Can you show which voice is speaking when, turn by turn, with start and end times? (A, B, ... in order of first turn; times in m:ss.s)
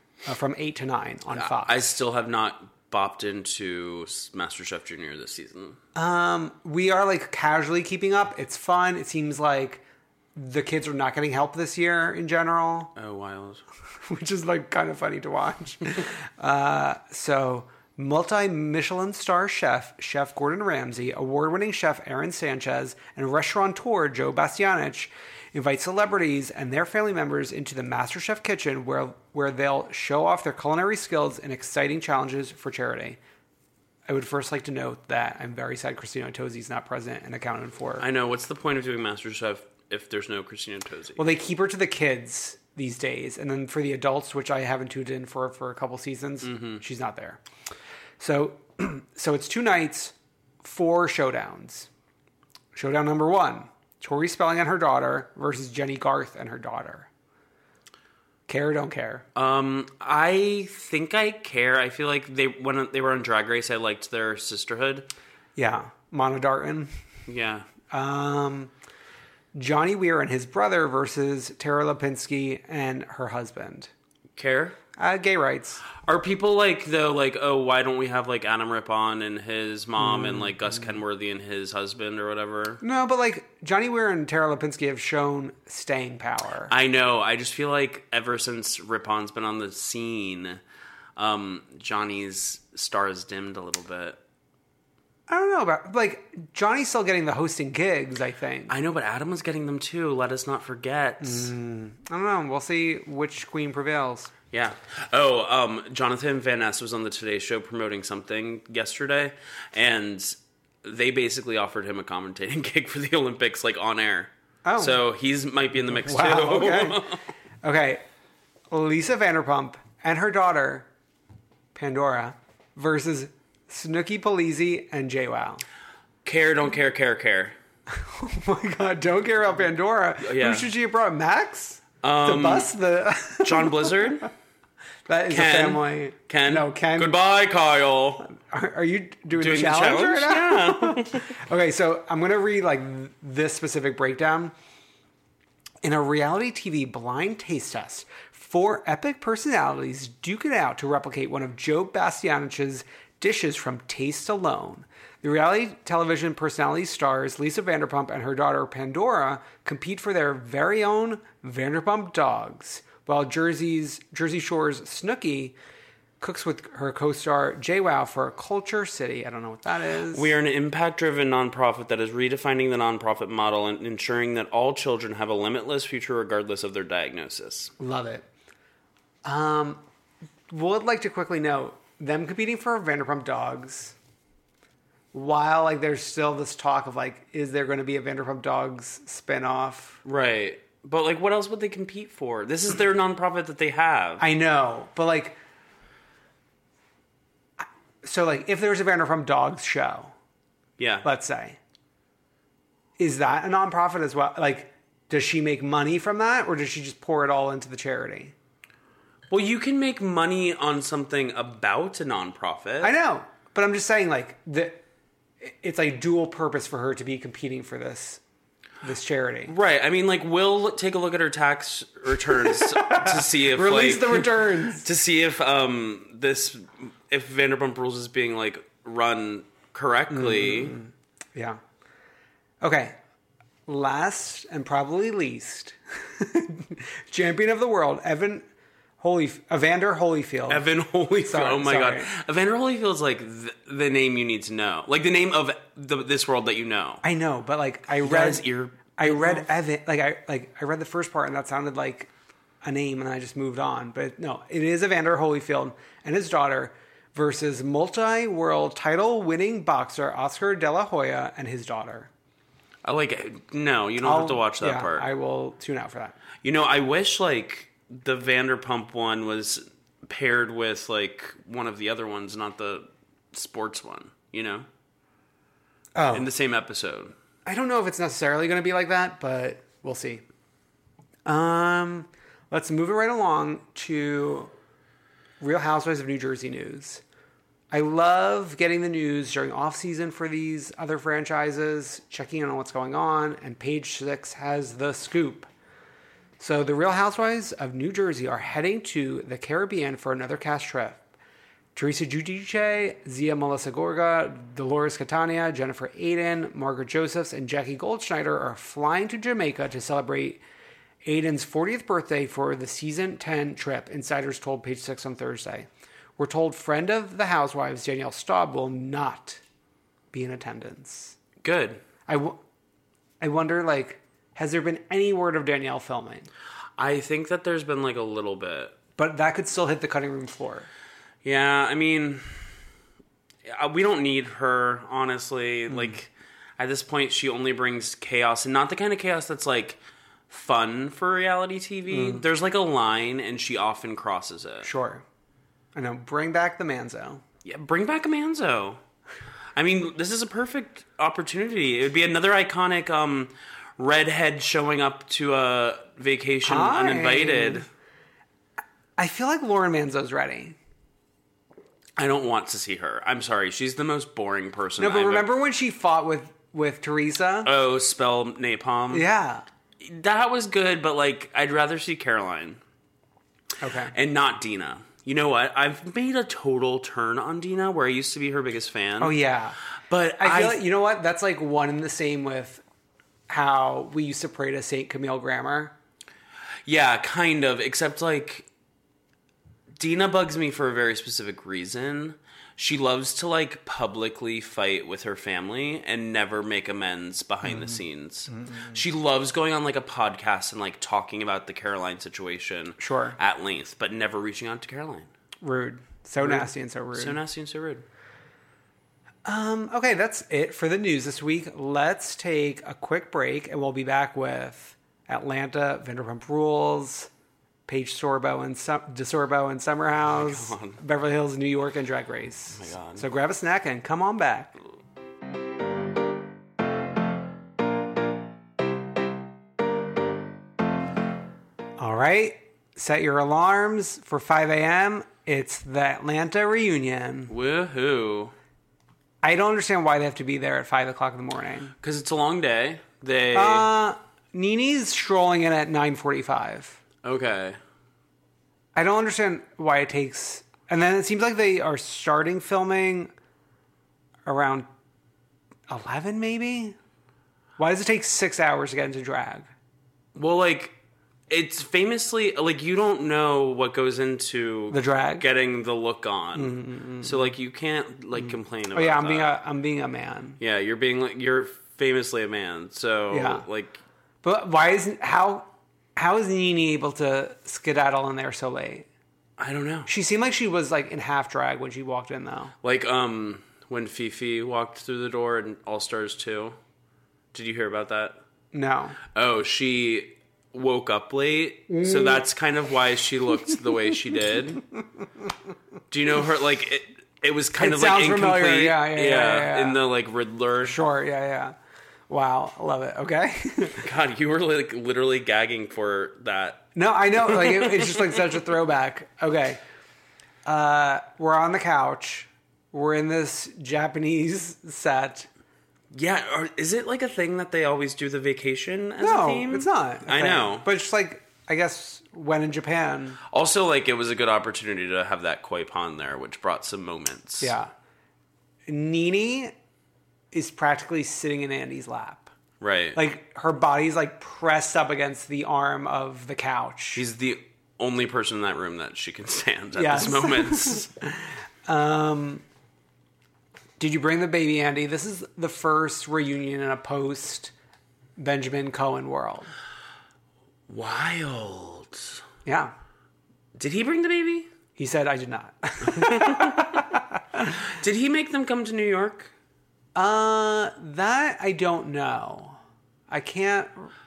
0:00.2-0:01.8 A
0:01.3-0:05.8 B
0:05.9-0:09.8 A
0:10.4-0:12.9 A
0:13.0-0:13.6 B
0:14.0-0:33.2 A
0:34.1-0:38.0 A
0:38.0-0:41.2 B
0:41.2-0:47.4 A
0:46.4-0:46.8 B
0:48.2-0:51.9 A
0:52.7-0:57.1 A
0:58.5-0:59.2 A
0:59.3-1:05.1 B
1:05.6-1:06.9 A
1:07.3-1:07.7 B
1:07.9-1:08.7 A
1:09.5-1:13.9 A
1:14.4-1:14.8 B
1:15.0-1:15.8 A
1:16.0-1:22.8 B
1:20.0-1:20.9 A
1:22.8-1:26.7 A
1:26.7-1:30.6 B
1:31.2-1:34.2 B
1:35.3-1:38.7 A
1:38.7-1:41.5 B
1:41.2-1:44.3 A
1:44.5-1:57.2 B
1:54.6-1:55.0 A
1:55.9-1:57.0 A
1:57.6-1:58.0 A
1:58.7-2:00.9 A
2:01.7-2:05.6 A
2:06.2-2:07.5 B
2:07.9-2:14.2 A
2:10.2-2:10.7 B
2:12.0-2:12.7 B
2:13.4-2:14.3 B
2:15.1-2:17.2 A
2:15.3-2:18.3 B
2:18.3-2:24.5 A
2:19.4-2:21.3 B
2:25.8-2:45.6 A
2:46.2-2:50.3 A
2:50.1-2:57.7 B
2:57.8-2:58.2 A
2:59.2-2:59.8 A
3:00.5-3:03.9 A
3:05.1-3:10.0 A
3:10.0-3:14.2 B
3:14.2-3:15.4 A
3:17.6-3:20.1 A
3:20.8-3:21.0 B
3:21.0-3:21.6 A
3:23.0-3:28.3 A
3:29.3-3:32.9 B
3:32.8-3:34.8 A
3:35.4-3:38.2 A
3:38.8-3:39.5 A
3:39.5-3:50.8 B
3:42.4-3:44.8 A
3:50.1-3:51.6 A
3:52.6-3:53.0 A
3:53.7-3:58.4 A
3:59.0-4:00.6 A
4:00.5-4:07.0 B
4:01.2-4:02.1 A
4:07.0-4:12.1 A
4:08.0-4:09.5 B
4:12.6-4:22.1 A
4:22.8-4:25.1 B
4:24.0-4:26.2 A
4:26.4-4:34.6 B
4:35.9-4:36.3 A
4:36.1-4:37.1 B
4:37.4-4:40.2 A
4:41.2-4:44.5 A
4:45.4-4:47.0 A
4:47.7-4:55.5 A
4:56.4-5:01.0 A
5:01.7-5:10.4 A
5:11.0-5:19.4 A
5:20.1-5:21.2 A
5:21.4-5:21.8 B
5:22.1-5:22.4 A
5:23.2-5:26.3 A
5:26.8-5:28.8 B
5:29.0-5:30.7 A
5:31.2-5:32.4 B
5:33.5-5:39.8 B
5:40.3-5:44.7 B
5:41.9-5:42.2 A
5:44.6-5:45.0 A
5:45.7-5:47.2 A
5:47.4-5:48.8 B
5:49.6-5:57.7 B
5:56.4-5:57.7 A
5:59.0-6:00.6 A
6:02.0-6:05.3 B
6:04.8-6:07.5 A
6:07.4-6:09.1 B
6:08.9-6:09.4 A
6:09.8-6:12.6 B
6:13.6-6:13.9 A
6:13.9-6:19.2 B
6:19.0-6:19.6 A
6:19.9-6:20.6 B
6:20.2-6:22.6 A
6:23.3-6:25.7 A
6:26.6-6:28.5 B
6:29.8-6:45.1 B
6:37.5-6:37.8 A
6:42.8-6:43.2 A
6:45.4-6:47.2 A
6:46.2-6:47.8 B
6:49.2-6:57.1 A
6:57.7-7:04.5 A
7:00.1-7:00.8 B
7:02.6-7:03.0 B
7:11.8-7:17.3 A
7:17.3-7:18.3 B
7:19.2-7:21.7 A
7:21.8-7:23.7 B
7:23.3-7:26.8 A
7:27.0-7:27.6 B
7:28.7-7:33.1 A
7:34.2-7:34.7 A
7:35.7-7:36.8 A
7:37.6-7:39.5 A
7:40.1-7:40.7 B
7:41.3-7:49.3 B
7:44.7-7:45.2 A
7:46.4-7:47.2 A
7:48.2-7:50.4 A
7:50.4-7:53.8 B
7:53.1-7:53.4 A
7:54.2-7:58.8 A
7:59.4-7:59.9 B
7:59.9-8:02.5 A
8:02.6-8:06.6 B
8:07.3-8:08.2 B
8:08.5-8:09.0 A
8:09.1-8:14.6 B
8:11.7-8:12.2 A
8:15.9-8:20.8 B
8:17.6-8:19.8 A
8:20.6-8:21.5 A
8:22.1-8:23.8 A
8:23.8-8:26.7 B
8:26.7-8:29.6 A
8:27.2-8:28.1 B
8:30.4-8:35.3 A
8:35.9-8:40.7 B
8:39.0-8:43.2 A
8:43.3-8:47.5 B
8:47.4-8:47.7 A
8:48.7-8:49.5 A
8:50.3-8:52.3 A
8:52.6-8:53.0 B
8:52.9-8:57.0 A
8:56.9-9:00.9 B
8:59.8-9:02.4 A
9:03.8-9:07.5 A
9:08.2-9:09.5 A
9:10.7-9:12.2 B
9:12.4-9:12.7 A
9:13.6-9:14.5 B
9:14.8-9:17.5 A
9:15.9-9:16.9 B
9:17.8-9:19.3 B
9:19.9-9:22.6 A
9:23.1-9:23.9 A